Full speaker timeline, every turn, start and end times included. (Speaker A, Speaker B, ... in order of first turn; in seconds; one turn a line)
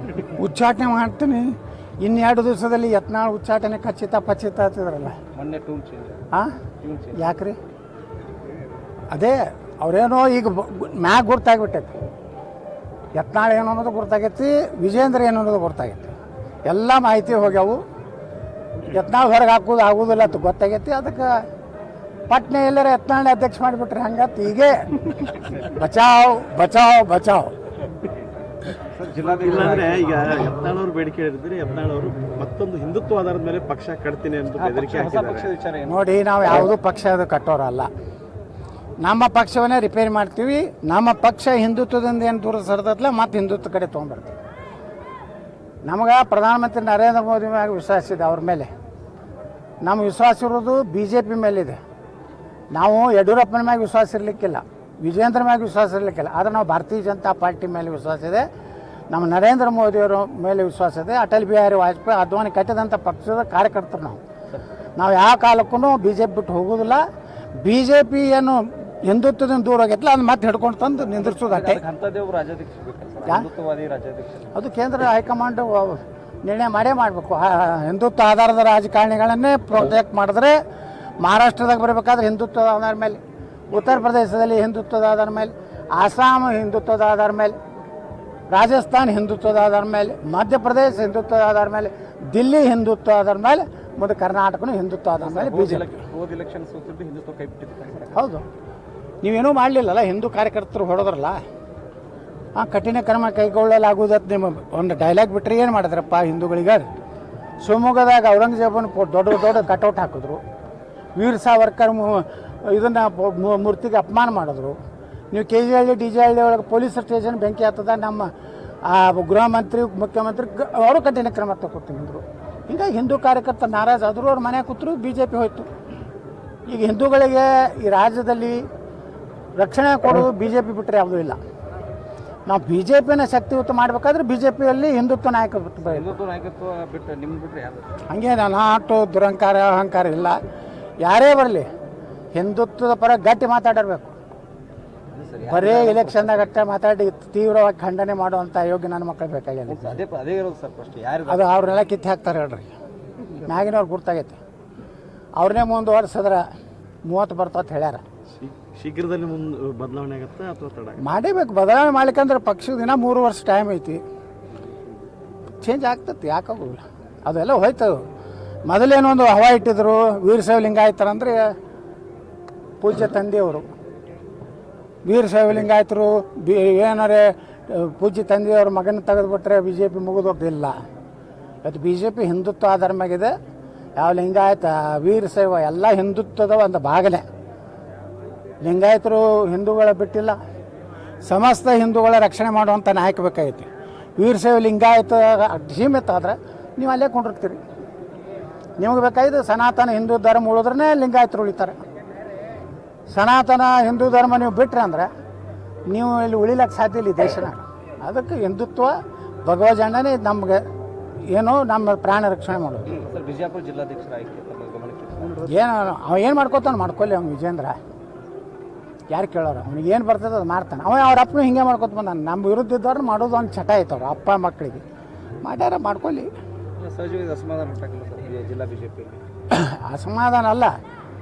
Speaker A: 0.4-5.2
Speaker B: 5.3-6.2
Speaker B: 6.8-7.2
Speaker A: 7.2-7.6
Speaker A: 9.1-11.9
Speaker A: 13.2-16.1
Speaker A: 16.7-17.8
Speaker A: 18.9-21.4
Speaker A: 22.3-27.5
Speaker B: 28.8-30.4
Speaker C: 29.2-35.5
Speaker B: 34.5-36.1
Speaker A: 35.9-37.9
Speaker A: 39.0-44.4
Speaker A: 45.9-48.7
Speaker A: 49.8-51.8
Speaker A: 52.7-58.5
Speaker A: 59.1-64.2
Speaker A: 65.0-67.0
Speaker A: 67.6-71.8
Speaker B: 71.1-74.5
Speaker A: 74.5-80.6
Speaker A: 81.2-83.2
Speaker A: 83.7-87.6
Speaker A: 88.5-95.9
Speaker B: 95.2-98.2
Speaker A: 98.1-98.5
Speaker A: 99.2-101.4
Speaker A: 102.6-106.9
Speaker A: 107.6-110.4
Speaker A: 111.2-114.8
Speaker A: 115.3-118.3
Speaker A: 118.8-125.7
Speaker A: 126.7-128.7
Speaker A: 129.6-131.4
Speaker A: 132.5-136.1
Speaker B: 135.8-138.0
Speaker A: 138.1-140.4
Speaker A: 141.0-141.7
Speaker A: 142.3-144.1
Speaker B: 145.1-146.6
Speaker A: 145.5-150.0
Speaker B: 149.7-151.8
Speaker A: 151.3-152.7
Speaker A: 153.4-154.4
Speaker A: 155.4-156.4
Speaker A: 157.1-158.0
Speaker C: 158.4-161.0
Speaker A: 161.0-164.0
Speaker A: 165.6-168.0
Speaker A: 168.7-171.5
Speaker A: 172.8-173.7
Speaker A: 175.1-180.7
Speaker A: 181.6-183.3
Speaker A: 184.0-187.2
Speaker A: 188.6-190.4
Speaker A: 191.2-197.6
Speaker A: 198.8-201.8
Speaker A: 203.1-205.1
Speaker A: 205.9-210.6
Speaker A: 211.3-212.9
Speaker B: 212.9-215.7
Speaker A: 215.5-217.8
Speaker A: 219.1-224.8
Speaker A: 225.4-226.3
Speaker B: 226.8-229.2
Speaker A: 229.5-230.8